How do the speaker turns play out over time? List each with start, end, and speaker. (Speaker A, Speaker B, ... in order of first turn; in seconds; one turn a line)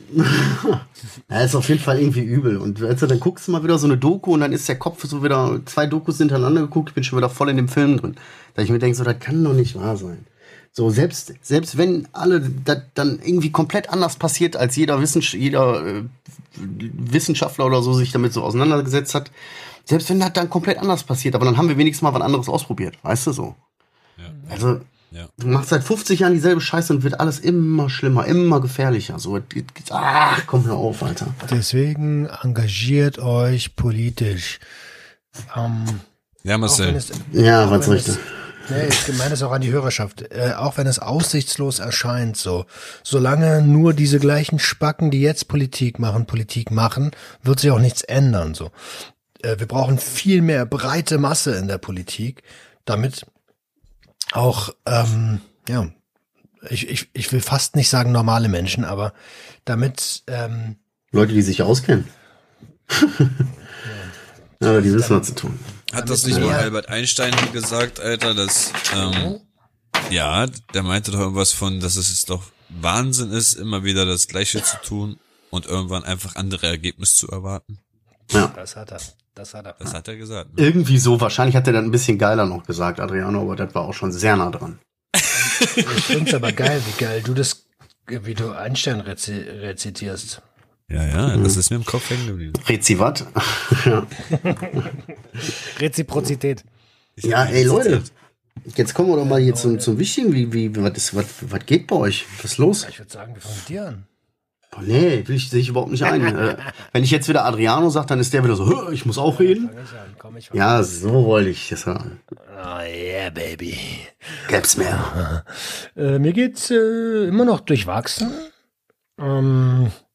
Speaker A: 0.1-19.3
Speaker A: 19.9-23.6
Speaker B: 24.2-24.5
Speaker A: 24.5-24.9
Speaker A: 25.4-31.5
Speaker C: 31.5-34.6
Speaker C: 35.5-36.1
Speaker B: 36.4-37.0
Speaker C: 36.6-48.7
Speaker A: 37.3-38.3
Speaker C: 49.4-53.3
Speaker C: 54.3-55.9
Speaker C: 56.6-59.1
Speaker C: 59.7-60.8
Speaker A: 61.1-62.1
Speaker A: 62.9-63.4
Speaker C: 63.8-64.2
Speaker A: 64.6-65.7
Speaker C: 64.9-65.3
Speaker B: 65.9-69.3
Speaker C: 66.0-66.7
Speaker A: 66.3-66.7
Speaker C: 68.9-69.4
Speaker B: 70.1-77.8
Speaker C: 78.5-79.9
Speaker B: 79.8-80.7
Speaker A: 80.6-84.8
Speaker C: 85.3-90.4
Speaker B: 85.5-86.0
Speaker B: 90.9-92.6
Speaker A: 91.3-91.6
Speaker A: 92.6-94.1
Speaker C: 94.4-96.7
Speaker B: 97.2-98.1
Speaker A: 97.2-98.1
Speaker A: 98.7-102.9
Speaker C: 99.2-99.9
Speaker C: 102.8-104.1
Speaker A: 104.7-109.7
Speaker C: 109.3-110.8
Speaker A: 110.5-112.2
Speaker C: 112.4-114.3
Speaker A: 114.5-115.2
Speaker C: 114.9-118.5
Speaker C: 119.2-120.0